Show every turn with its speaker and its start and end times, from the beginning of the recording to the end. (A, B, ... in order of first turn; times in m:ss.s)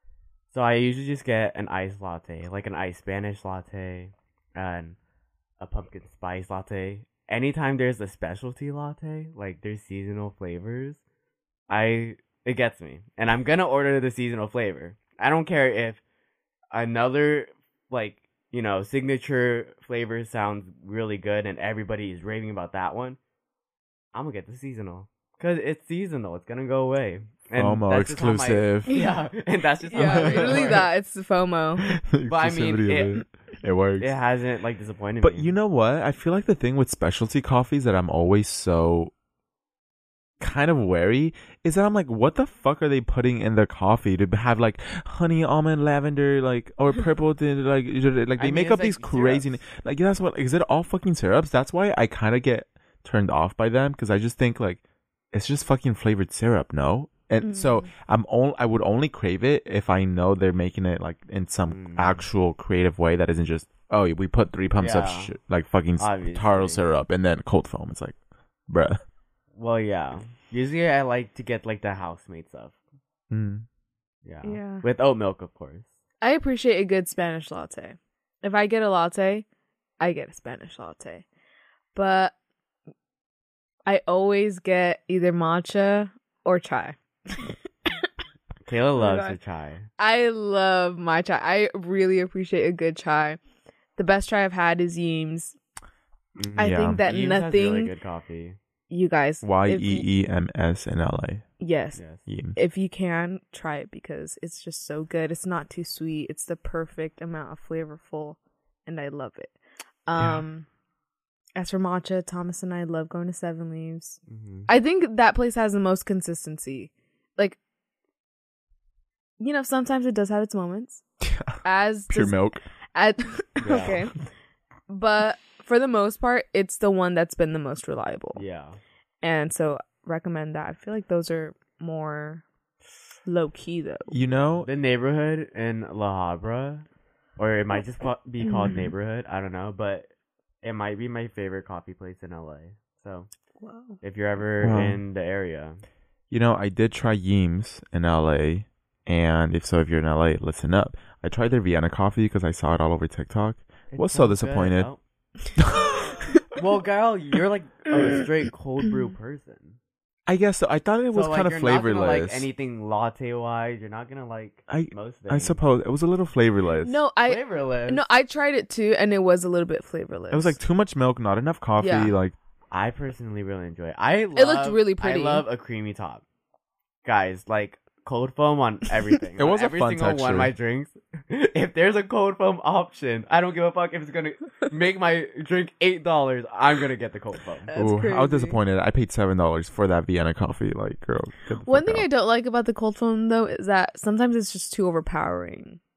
0:00.5-0:05.0 A
0:05.6-0:11.0 A
0:11.7-0:16.0 A
0:16.7-0:23.2 A
0:24.1-0:30.9 A
0:27.6-0:28.9 B
0:28.9-0:29.2 C
0:29.9-0:31.9 C
0:30.0-0:30.8 B
0:31.8-0:34.1 B
0:32.3-0:33.2 A
0:34.0-0:35.5 A
0:35.2-0:39.1 B
0:40.4-0:54.8 B
0:48.4-0:49.6 A
0:55.3-1:08.2 B
0:57.4-0:57.7 C
1:01.7-1:02.2 A
1:04.8-1:05.3 A
1:06.0-1:06.8 A
1:08.7-1:09.0 B
1:09.5-1:12.8 A
1:13.3-1:13.6 B
1:14.2-1:15.9 A
1:14.4-1:14.8 C
1:16.2-1:19.4 C
1:20.0-1:21.2 C
1:21.9-1:22.3 C
1:23.8-1:28.1 C
1:28.6-1:29.9 A
1:29.0-1:29.4 C
1:30.0-1:33.4 C
1:34.0-1:35.6 C
1:36.4-1:38.6 A
1:36.6-1:37.9 C
1:36.6-1:37.0 B
1:38.9-1:40.0 C
1:39.4-1:41.4 B
1:41.6-1:42.0 C
1:42.0-1:42.2 A
1:42.3-1:42.6 B
1:42.5-1:50.7 C
1:50.2-1:50.4 B
1:51.6-1:57.6 C
1:54.3-1:54.7 A
1:59.4-2:01.0 C
2:01.2-2:01.6 B
2:01.6-2:02.4 C
2:02.1-2:02.6 B
2:02.9-2:04.2 C
2:03.6-2:04.0 A
2:04.9-2:08.4 C
2:08.3-2:08.8 A
2:09.2-2:12.4 C
2:13.2-2:14.2 C
2:14.1-2:14.7 B
2:14.6-2:16.8 A
2:17.4-2:20.1 A
2:18.4-2:18.9 C
2:20.6-2:23.3 A
2:23.6-2:24.0 C
2:24.0-2:25.8 A
2:24.6-2:25.0 B
2:26.3-2:34.9 B
2:33.9-2:35.0 A
2:35.6-2:36.2 B
2:36.5-2:39.8 A
2:40.3-2:42.5 B
2:41.1-2:45.6 A
2:44.7-2:47.0 B
2:46.8-2:50.6 C
2:47.2-2:48.0 A
2:50.3-2:52.3 B
2:51.8-2:52.1 C
2:52.7-2:56.2 A
2:54.3-2:55.4 C
2:57.0-3:07.7 A
2:59.4-3:00.5 B
3:07.7-3:08.6 C
3:07.7-3:12.1 B
3:11.6-3:15.8 C